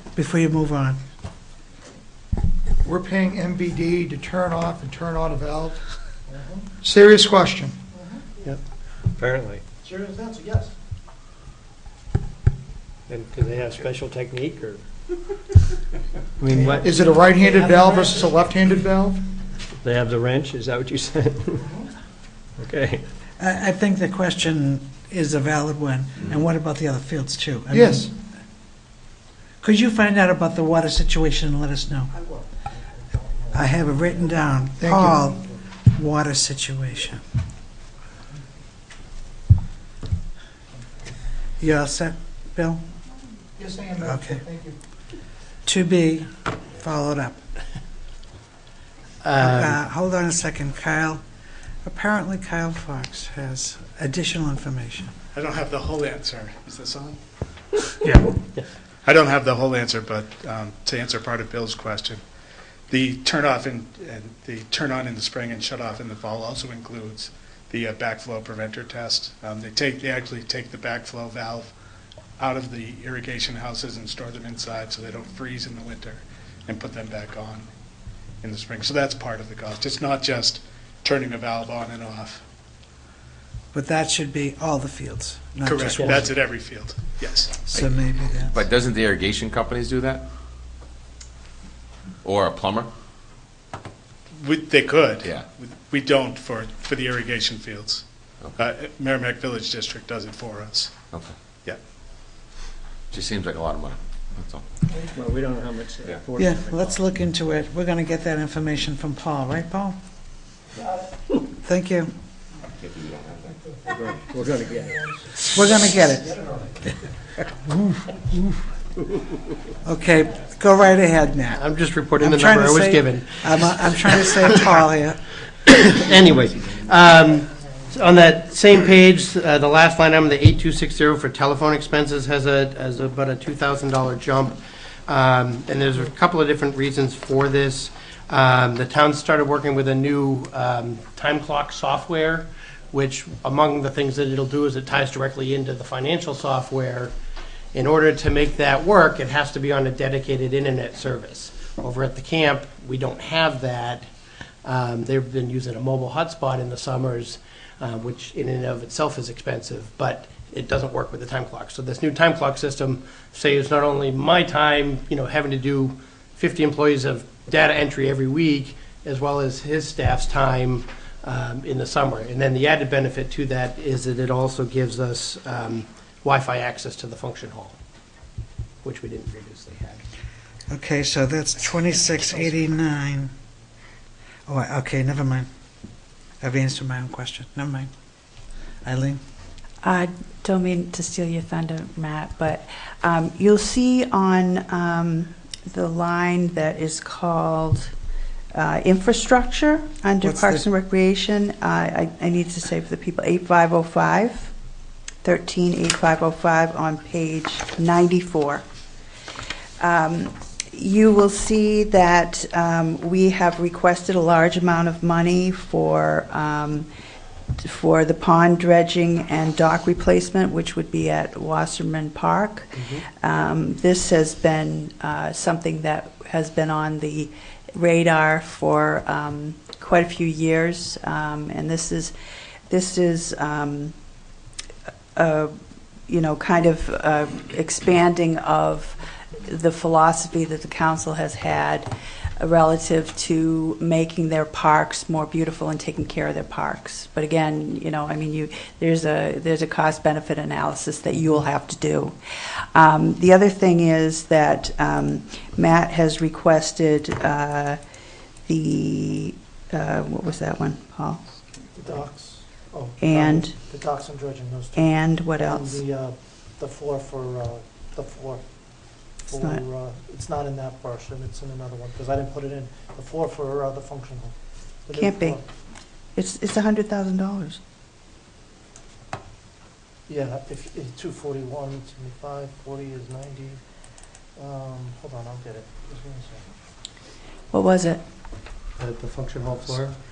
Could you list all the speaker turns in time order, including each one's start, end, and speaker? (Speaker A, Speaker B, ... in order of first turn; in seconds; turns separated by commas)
Speaker A: 0.1-1.0, Speaker B: 2.8-5.8, Speaker C: 6.3-6.7, Speaker B: 6.8-7.8, Speaker C: 7.9-8.2, Speaker D: 9.2-9.6, Speaker C: 9.8-10.7, Speaker D: 13.1-14.8, Speaker D: 16.4-18.0, Speaker B: 16.8-19.2, Speaker D: 19.8-21.7, Speaker D: 22.6-23.1, Speaker A: 23.4-28.0, Speaker B: 27.7-28.1, Speaker A: 29.6-32.1, Speaker C: 32.2-32.5, Speaker C: 33.2-33.5, Speaker A: 33.5-37.2, Speaker B: 34.8-35.3, Speaker A: 41.6-42.8, Speaker B: 43.6-44.8, Speaker A: 44.0-44.4, Speaker A: 45.7-47.4, Speaker E: 49.2-49.8, Speaker A: 49.4-51.2, Speaker A: 51.9-55.1, Speaker F: 55.3-57.2, Speaker F: 59.0-62.2, Speaker F: 62.9-71.7, Speaker F: 72.4-77.7, Speaker F: 78.4-82.4, Speaker A: 83.7-86.3, Speaker F: 85.6-87.7, Speaker D: 86.0-86.3, Speaker A: 87.7-88.6, Speaker G: 88.5-90.2, Speaker G: 92.2-92.9, Speaker F: 94.4-98.0, Speaker F: 98.6-101.0, Speaker G: 103.1-104.6, Speaker D: 105.1-107.0, Speaker A: 106.4-110.0, Speaker A: 111.6-112.1, Speaker G: 112.8-113.5, Speaker D: 113.9-115.1, Speaker A: 115.4-116.4, Speaker C: 116.3-116.7, Speaker A: 119.8-121.6, Speaker E: 121.5-124.6, Speaker A: 122.2-125.3, Speaker E: 125.7-147.1, Speaker E: 147.7-154.1, Speaker E: 154.7-177.8, Speaker E: 178.8-180.0, Speaker A: 180.7-183.3, Speaker A: 184.5-185.5, Speaker A: 186.4-187.9, Speaker A: 188.8-189.2, Speaker H: 189.8-197.9, Speaker H: 198.5-204.5, Speaker A: 200.2-200.7, Speaker H: 205.2-208.6, Speaker H: 209.8-216.9, Speaker H: 217.6-232.2, Speaker H: 232.7-233.9, Speaker H: 235.2-235.5, Speaker H: 236.1-252.2, Speaker H: 252.7-257.8, Speaker H: 258.5-261.2, Speaker C: 261.8-275.4, Speaker H: 263.0-263.6, Speaker H: 264.8-265.8, Speaker H: 269.3-269.6, Speaker H: 274.9-275.4, Speaker H: 276.1-277.6, Speaker C: 280.1-283.6, Speaker C: 284.4-286.5, Speaker H: 287.5-288.0, Speaker E: 288.8-290.0